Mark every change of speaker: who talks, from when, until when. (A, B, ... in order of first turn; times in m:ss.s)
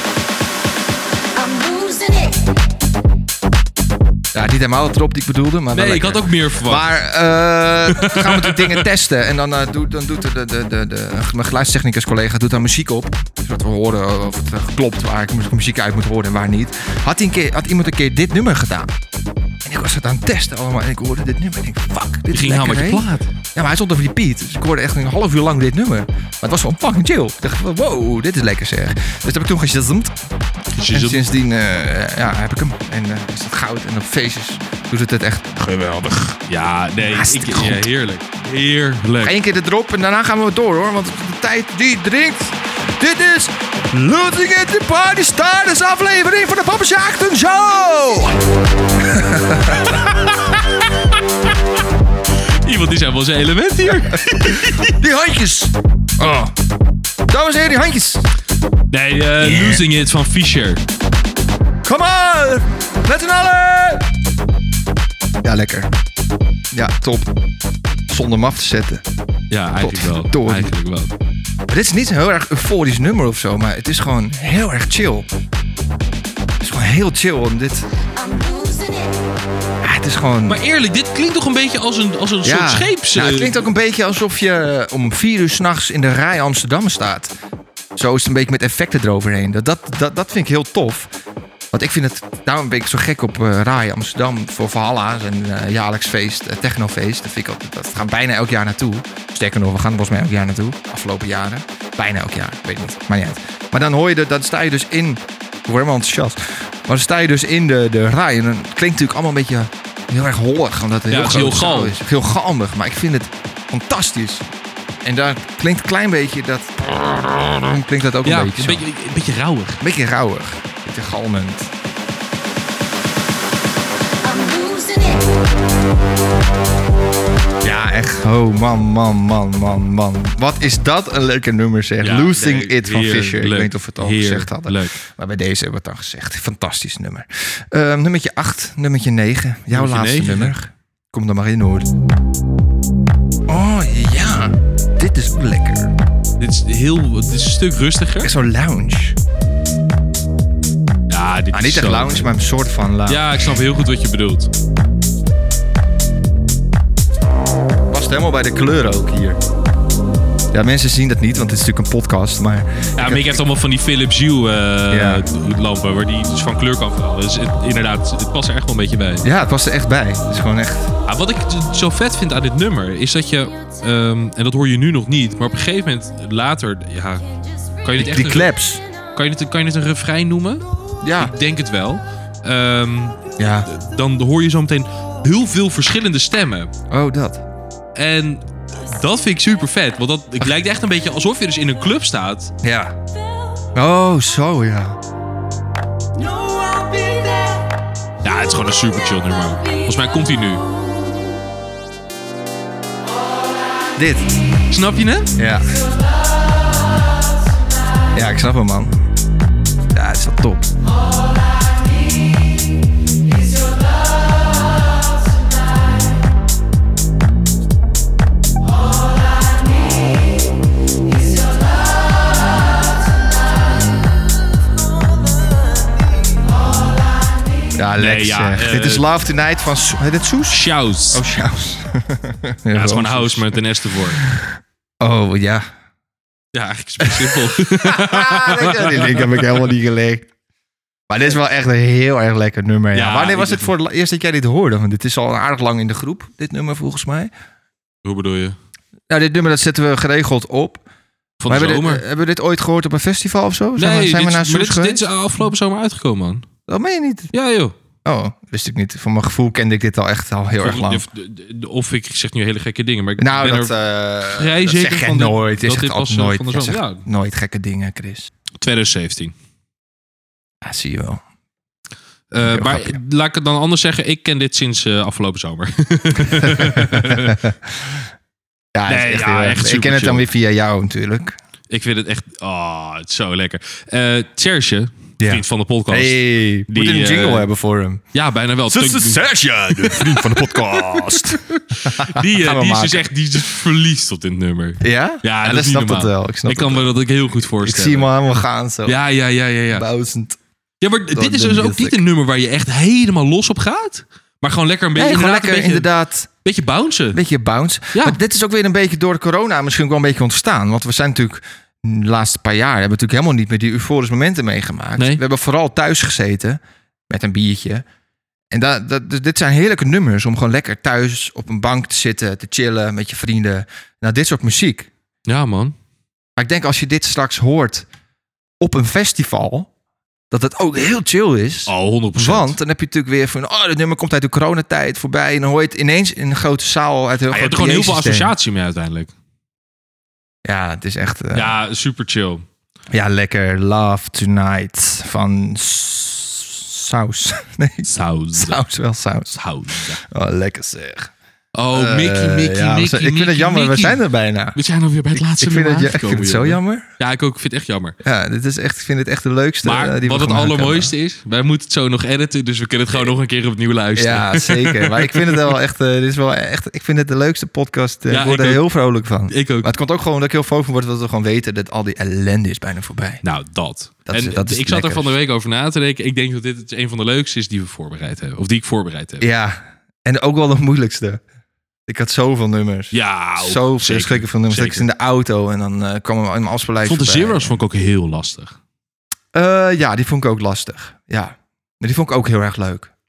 0:01.4-0:02.4 A
0:04.3-0:18.9 B
0:05.7-0:06.9 C
0:07.9-0:08.9 C
0:19.6-0:30.2 B
0:22.3-0:23.3 C
0:30.8-0:31.3 C
0:30.8-0:36.4 B
0:36.5-0:39.4 C
0:37.0-0:37.9 B
0:39.2-0:48.4 B
0:49.0-0:50.2 B
0:52.6-0:54.9 C
0:54.1-0:56.5 B
0:57.3-0:58.3 B
0:58.9-1:00.8 C
0:59.4-0:59.8 B
1:01.8-1:04.1 B
1:05.4-1:05.9 B
1:06.7-1:07.3 B
1:08.1-1:09.0 B
1:09.5-1:11.1 C
1:09.8-1:10.7 B
1:11.7-1:15.3 B
1:16.6-1:17.9 B
1:18.2-1:19.1 A
1:19.8-1:20.6 B
1:20.5-1:23.6 C
1:22.4-1:27.3 B
1:28.0-1:31.1 B
1:31.7-1:54.5 B
1:51.1-1:52.0 C
1:55.0-1:58.8 B
1:58.2-1:59.8 C
1:59.8-2:01.7 B
2:04.2-2:05.2 A
2:07.6-2:21.9 B
2:12.0-2:15.0 C
2:19.7-2:20.5 C
2:23.5-2:25.9 B
2:26.4-2:28.3 C
2:28.2-2:29.2 B
2:31.1-2:32.4 C
2:31.5-2:33.6 B
2:33.1-2:34.5 C
2:37.9-2:39.4 B
2:40.5-2:43.4 B
2:43.0-2:49.3 C
2:44.9-2:45.2 B
2:49.2-2:50.9 B
2:51.1-2:57.3 C
2:57.8-2:58.5 C
2:58.0-2:58.8 B
2:59.2-3:00.6 C
3:01.0-3:01.3 B
3:01.2-3:06.7 C
3:03.4-3:03.7 B
3:06.9-3:07.4 B
3:08.0-3:12.5 C
3:12.6-3:13.0 B
3:13.8-3:15.0 B
3:16.2-3:17.6 A
3:18.2-3:20.6 C
3:24.0-3:24.4 B
3:24.7-3:25.3 C
3:25.4-3:25.7 B
3:28.1-3:29.0 B
3:29.9-3:30.7 B
3:47.8-3:53.6 B
3:48.0-3:49.1 C
3:50.5-3:51.2 C
3:52.7-3:54.2 C
3:54.2-3:55.7 B
3:56.5-3:59.6 C
3:57.0-4:00.3 B
4:01.1-4:07.3 B
4:02.9-4:03.7 C
4:08.0-4:08.6 C
4:09.1-4:10.8 B
4:11.4-4:12.0 C
4:11.5-4:15.0 B
4:13.8-4:16.5 C
4:16.7-4:17.3 B
4:17.3-4:17.7 C
4:18.0-4:21.1 B
4:20.6-4:23.7 C
4:23.2-4:28.3 B
4:24.3-4:27.0 C
4:28.6-4:29.3 C
4:30.6-4:31.2 B
4:32.3-4:37.4 C
4:32.4-4:33.0 B
4:36.2-4:38.0 B
4:38.7-4:41.4 B
4:38.9-4:40.3 C
4:41.7-4:47.5 C
4:45.2-4:48.0 B
4:48.1-4:58.1 C
4:48.7-4:53.4 B
4:54.8-4:59.0 B
4:58.8-4:59.9 C
4:59.7-5:00.4 B
5:00.8-5:05.9 C
5:01.1-5:02.0 B
5:05.0-5:06.3 B
5:06.4-5:07.2 C
5:07.1-5:17.8 B
5:15.0-5:15.2 C
5:18.5-5:24.9 B
5:25.3-5:25.8 C
5:26.4-5:27.9 B
5:28.6-5:29.7 B
5:30.3-5:38.3 B
5:31.7-5:32.6 C
5:37.3-5:39.1 C
5:40.4-5:41.6 B
5:41.3-5:42.4 C
5:42.9-5:49.4 B
5:47.9-5:48.6 C
5:49.3-5:50.0 C
5:50.0-5:51.1 B
5:51.6-5:54.0 C
5:51.7-5:54.6 B
5:54.5-5:58.0 C
5:55.4-5:56.9 B
5:58.0-6:00.9 B
5:59.6-6:05.4 C
6:04.0-6:13.2 B
6:08.1-6:08.7 C
6:09.3-6:09.7 C
6:13.2-6:19.3 C
6:14.1-6:15.1 B
6:19.2-6:21.2 B
6:21.9-6:27.6 B
6:22.9-6:24.9 C
6:26.8-6:28.6 C
6:29.3-6:32.9 B